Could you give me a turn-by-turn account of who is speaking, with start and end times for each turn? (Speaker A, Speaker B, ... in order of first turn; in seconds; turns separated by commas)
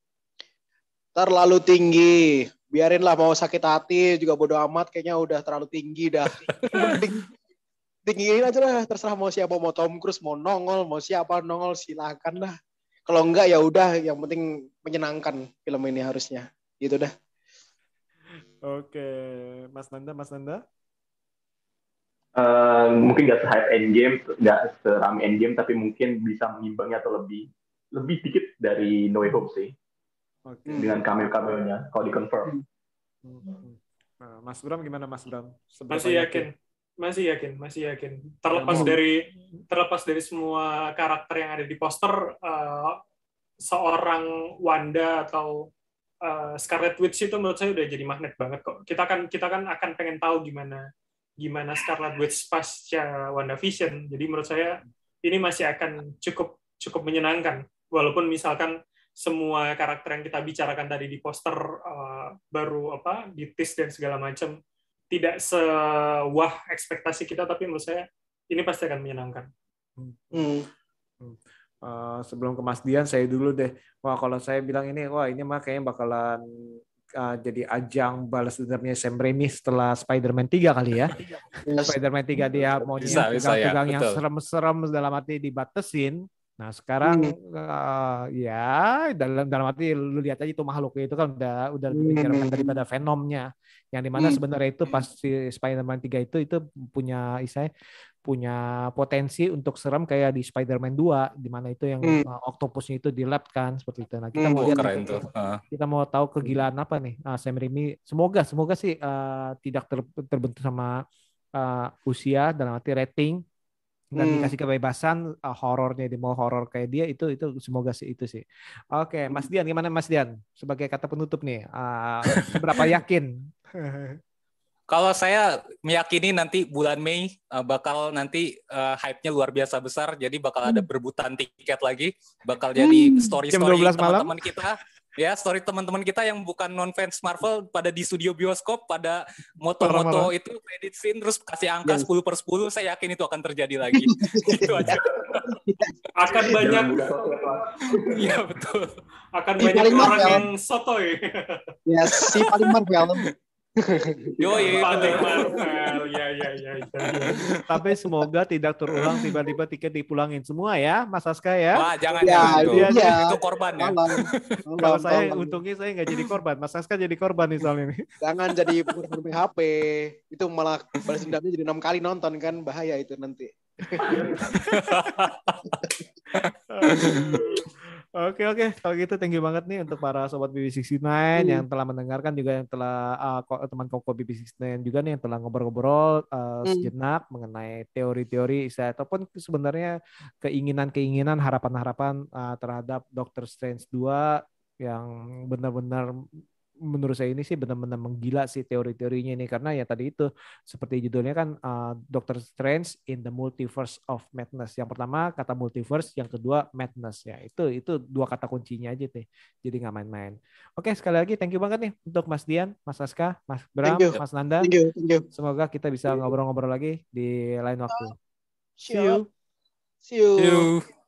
Speaker A: 1.1-7.2, Speaker A: 8.1-12.5, Speaker A: 13.1-17.1, Speaker B: 18.6-20.6, Speaker C: 22.4-29.7, Speaker B: 30.4-31.0, Speaker A: 30.7-31.0, Speaker C: 30.7-32.5, Speaker B: 33.2-36.5, Speaker D: 35.9-43.0, Speaker B: 38.5-38.9, Speaker A: 38.7-39.0, Speaker D: 43.6-45.7, Speaker D: 46.2-50.8, Speaker D: 51.4-64.5, Speaker D: 65.1-69.5, Speaker B: 70.0-70.5, Speaker A: 70.3-70.7, Speaker B: 71.2-81.2, Speaker A: 81.6-81.9, Speaker B: 81.8-97.7, Speaker E: 83.0-84.2, Speaker A: 87.0-87.3, Speaker A: 91.9-92.8, Speaker B: 98.2-110.9, Speaker A: 104.3-105.1, Speaker E: 104.5-105.6, Speaker B: 111.5-113.4, Speaker B: 114.1-124.2, Speaker A: 114.2-114.5, Speaker E: 124.9-145.5, Speaker B: 133.5-134.5, Speaker B: 139.8-140.3, Speaker A: 144.1-145.9, Speaker D: 146.2-147.0, Speaker C: 146.3-148.1, Speaker E: 148.1-148.9, Speaker D: 149.3-151.6, Speaker A: 149.6-150.4, Speaker A: 151.9-153.2, Speaker A: 153.8-154.2, Speaker C: 154.4-156.0, Speaker E: 154.4-155.5, Speaker D: 154.6-157.4, Speaker B: 157.7-163.3, Speaker E: 161.7-164.6, Speaker A: 162.2-165.6, Speaker B: 164.8-168.0, Speaker A: 168.2-174.1, Speaker C: 174.0-174.5, Speaker B: 174.5-174.9, Speaker E: 174.7-175.5, Speaker B: 176.7-196.1, Speaker E: 177.0-177.4, Speaker A: 181.4-181.6, Speaker B: 196.8-214.7, Speaker A: 213.8-215.2, Speaker B: 215.3-218.2, Speaker A: 218.8-219.2, Speaker B: 218.9-219.3, Speaker A: 220.0-220.7, Speaker E: 220.4-220.8